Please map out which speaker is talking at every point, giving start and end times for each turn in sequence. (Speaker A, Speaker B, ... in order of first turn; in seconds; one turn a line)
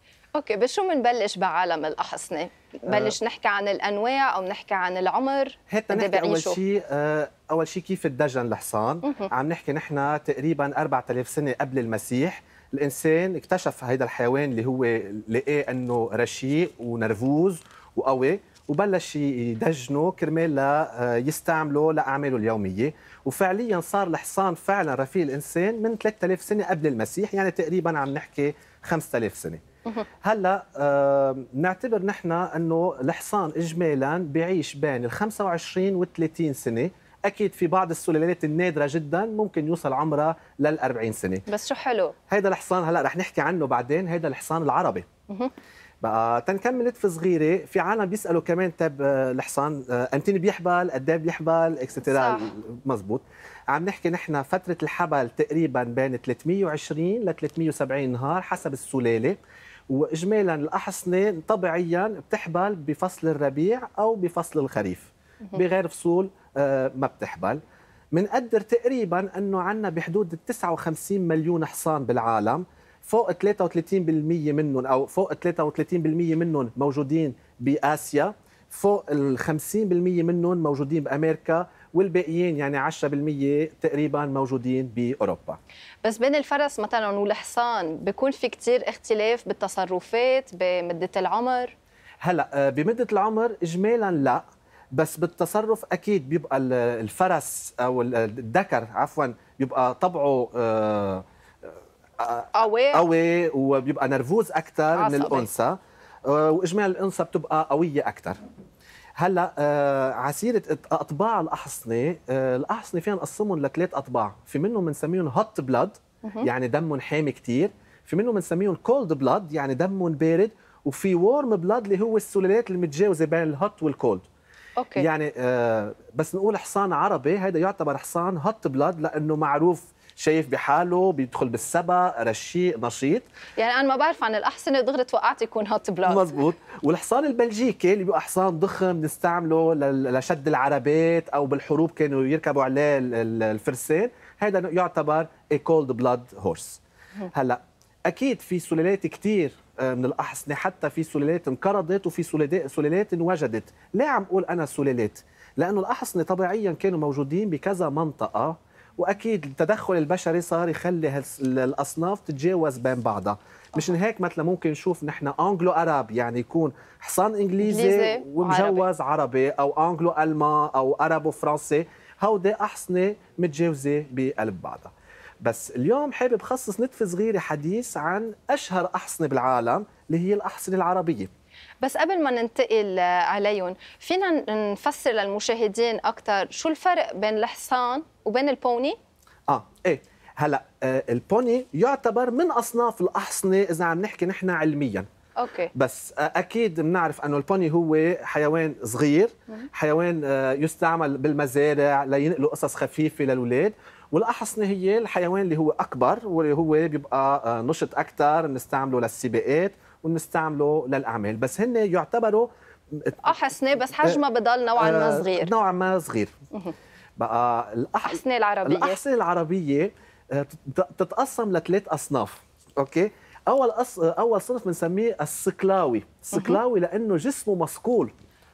Speaker A: 0.3-6.6
Speaker B: 2.9-3.1
Speaker B: 5.7-29.6
Speaker A: 9.0-9.3
Speaker B: 30.2-41.5
Speaker A: 41.5-42.1
Speaker B: 42.3-45.0
Speaker B: 46.0-59.4
Speaker A: 52.0-52.5
Speaker B: 59.9-67.6
Speaker B: 68.1-85.6
Speaker A: 86.0-91.7
Speaker B: 92.2-94.4
Speaker B: 94.9-108.4
Speaker A: 102.5-103.0
Speaker A: 104.9-105.5
Speaker B: 109.2-124.3
Speaker A: 124.8-125.0
Speaker B: 125.0-133.2
Speaker A: 133.6-136.3
Speaker B: 136.1-146.8
Speaker B: 147.3-181.3
Speaker A: 167.6-168.8
Speaker A: 181.8-189.0
Speaker B: 189.5-195.1
Speaker A: 195.4-195.7
Speaker B: 195.7-213.2
Speaker A: 213.2-215.5
Speaker B: 214.8-216.3
Speaker B: 217.2-228.1
Speaker A: 218.0-219.0
Speaker A: 226.3-226.6